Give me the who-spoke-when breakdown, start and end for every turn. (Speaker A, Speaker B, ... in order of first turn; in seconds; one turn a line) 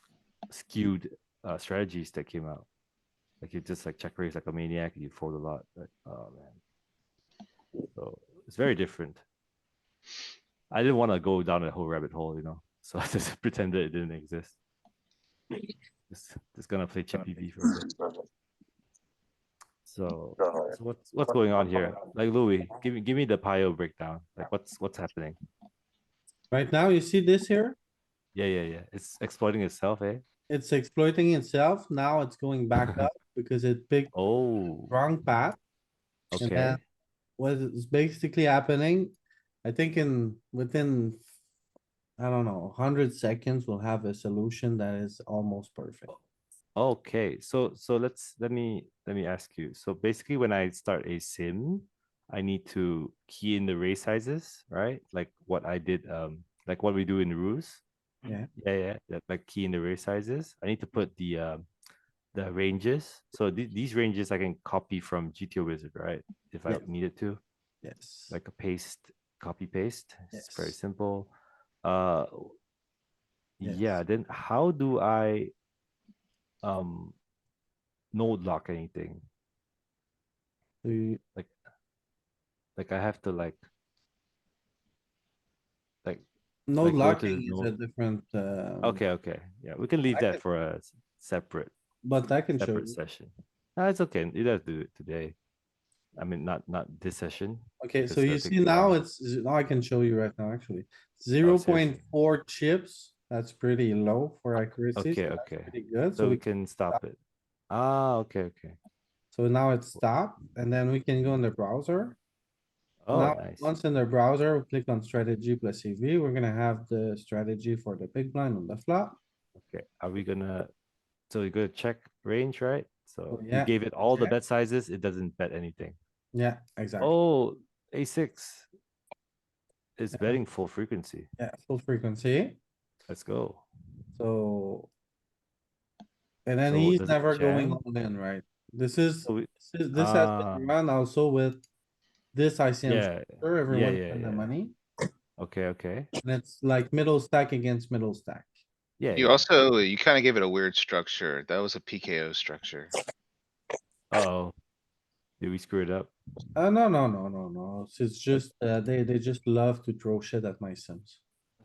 Speaker A: 0.5-2.7
Speaker A: 3.4-6.6
Speaker A: 7.9-9.2
Speaker A: 10.7-14.6
Speaker A: 16.1-17.9
Speaker A: 19.9-25.4
Speaker B: 26.5-27.8
Speaker A: 28.4-30.2
Speaker B: 30.5-34.1
Speaker A: 34.1-34.9
Speaker B: 34.9-35.6
Speaker A: 36.3-36.8
Speaker B: 36.4-36.8
Speaker B: 37.4-41.2
Speaker B: 42.2-46.1
Speaker A: 46.8-57.8
Speaker A: 58.6-61.6
Speaker A: 62.4-67.4
Speaker B: 67.8-68.3
Speaker A: 68.3-71.3
Speaker B: 70.3-70.7
Speaker A: 71.8-72.5
Speaker A: 73.6-75.5
Speaker B: 73.6-74.0
Speaker A: 76.6-77.2
Speaker A: 78.1-79.2
Speaker B: 80.8-81.2
Speaker A: 82.8-83.6
Speaker B: 86.7-89.0
Speaker A: 86.8-87.7
Speaker A: 88.8-91.7
Speaker B: 90.1-90.4
Speaker B: 92.0-93.0
Speaker A: 92.6-95.4
Speaker A: 96.2-99.0
Speaker B: 97.8-107.0
Speaker A: 101.4-102.0
Speaker A: 105.0-107.2
Speaker A: 107.7-108.8
Speaker B: 109.3-112.2
Speaker A: 113.0-113.7
Speaker B: 113.1-119.2
Speaker A: 119.6-120.7
Speaker A: 121.3-126.0
Speaker B: 123.3-124.3
Speaker B: 126.3-127.1
Speaker A: 127.0-128.7
Speaker A: 130.0-131.3
Speaker B: 131.4-132.6
Speaker A: 133.1-133.7
Speaker B: 134.2-134.9
Speaker B: 136.5-141.6
Speaker A: 136.7-137.8
Speaker A: 139.2-140.7
Speaker B: 142.3-144.8
Speaker A: 142.9-144.5
Speaker A: 145.4-146.1
Speaker B: 146.2-148.5
Speaker A: 149.0-149.4
Speaker C: 149.2-152.9
Speaker A: 154.1-154.5
Speaker A: 155.4-156.1
Speaker B: 156.6-161.2